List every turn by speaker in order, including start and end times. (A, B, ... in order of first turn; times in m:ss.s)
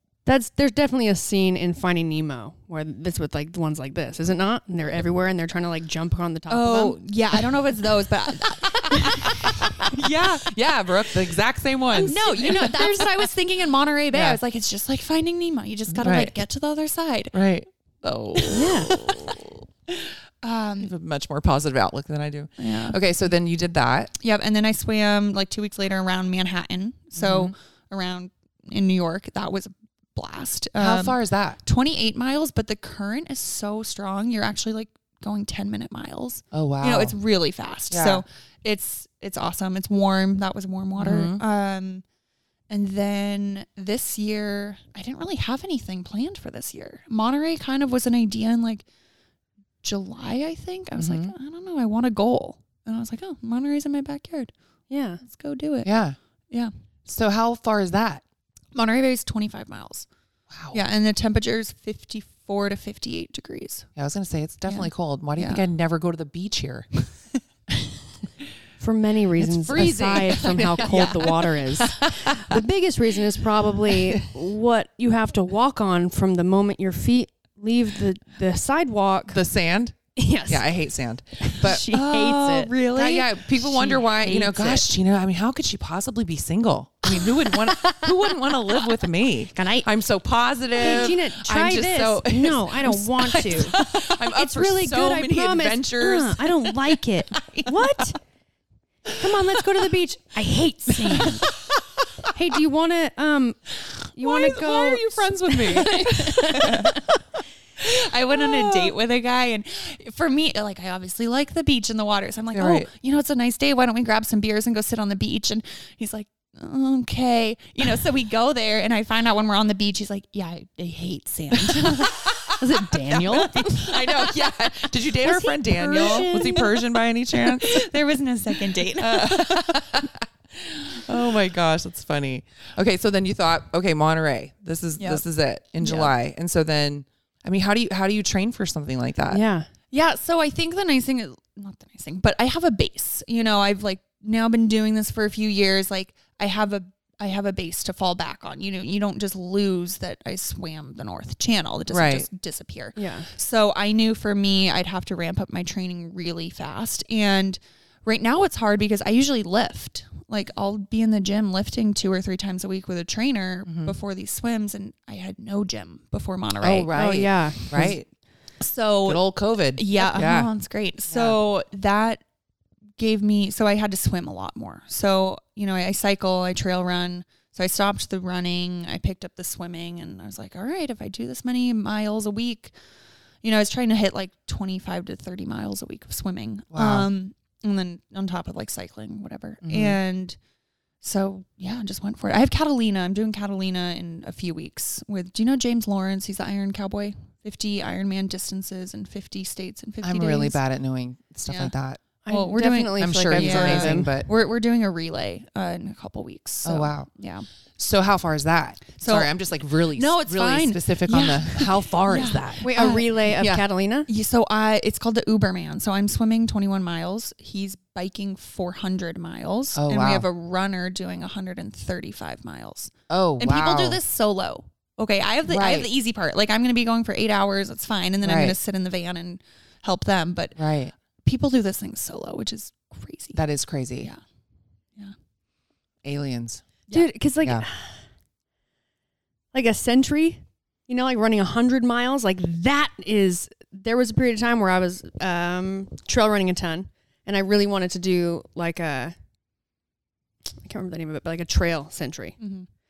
0:00.2-0:07.0 A
0:06.5-0:10.5 B
0:08.5-0:13.1 C
0:12.0-0:17.3 B
0:12.0-0:12.8 A
0:14.1-0:14.4 C
0:15.9-0:16.3 C
0:17.3-0:19.4 C
0:18.3-0:20.9 B
0:18.5-0:19.0 A
0:20.8-0:24.1 C
0:22.6-0:23.0 B
0:24.2-0:42.0 B
0:27.2-0:27.5 C
0:30.8-0:31.6 C
0:36.5-0:37.1 C
0:37.9-0:38.2 C
0:41.0-0:41.4 C
0:42.7-0:48.8 B
0:49.8-0:54.5 B
0:51.0-0:51.3 C
0:54.9-0:55.2 A
0:55.2-0:55.9 B
0:55.8-0:56.2 C
0:57.0-0:58.2 C
0:58.7-1:00.1 B
1:00.5-1:00.8 C
1:00.7-1:03.9 B
1:04.0-1:06.9 C
1:04.6-1:05.6 B
1:08.8-1:19.4 A
1:09.4-1:12.6 C
1:13.9-1:14.2 C
1:19.3-1:21.8 C
1:20.2-1:20.6 A
1:21.4-1:22.7 A
1:21.9-1:24.0 B
1:23.0-1:37.7 C
1:24.0-1:24.8 A
1:29.5-1:29.9 A
1:30.8-1:38.2 A
1:39.2-1:41.5 A
1:42.3-1:43.6 A
1:44.1-1:45.2 A
1:44.2-1:47.0 C
1:45.6-1:47.0 B
1:45.8-1:47.0 A
1:47.8-2:02.2 B
1:48.3-1:48.9 C
1:52.5-1:52.9 C
2:01.5-2:02.5 C
2:02.6-2:03.7 A
2:03.0-2:06.7 B
2:03.1-2:07.9 C
2:05.2-2:06.6 A
2:07.3-2:10.0 B
2:09.0-2:19.4 C
2:15.0-2:15.2 B
2:15.8-2:16.1 B
2:19.3-2:19.7 A
2:19.9-2:46.9 B
2:31.9-2:32.3 C
2:33.0-2:33.3 A
2:43.7-2:43.9 C
2:46.6-2:48.0 C
2:46.9-2:47.9 A
2:48.6-2:49.2 B
2:49.0-2:50.5 C
2:49.8-2:52.2 B
2:51.1-2:51.4 C
2:53.0-3:02.7 B
3:03.4-3:10.4 B
3:06.7-3:07.1 C
3:09.6-3:10.0 C
3:11.0-3:20.6 B
3:20.0-3:22.0 C
3:21.5-3:21.7 B
3:22.2-3:24.1 A
3:22.3-3:27.5 B
3:23.0-3:24.3 C
3:26.6-3:27.1 C
3:27.8-3:32.7 C
3:29.0-3:29.3 B
3:29.9-3:33.1 B
3:32.6-3:34.1 A
3:33.4-3:33.6 C
3:34.1-3:50.6 B
3:39.8-3:40.2 C
3:43.1-3:44.0 C
3:45.5-3:45.9 C
3:48.2-3:48.6 C
3:50.6-3:50.9 C
3:51.2-3:53.4 B
3:53.3-3:54.1 C
3:56.0-3:56.6 C
3:56.9-3:58.0 A
3:59.5-4:09.1 A
4:10.6-4:12.4 A
4:12.4-4:12.7 B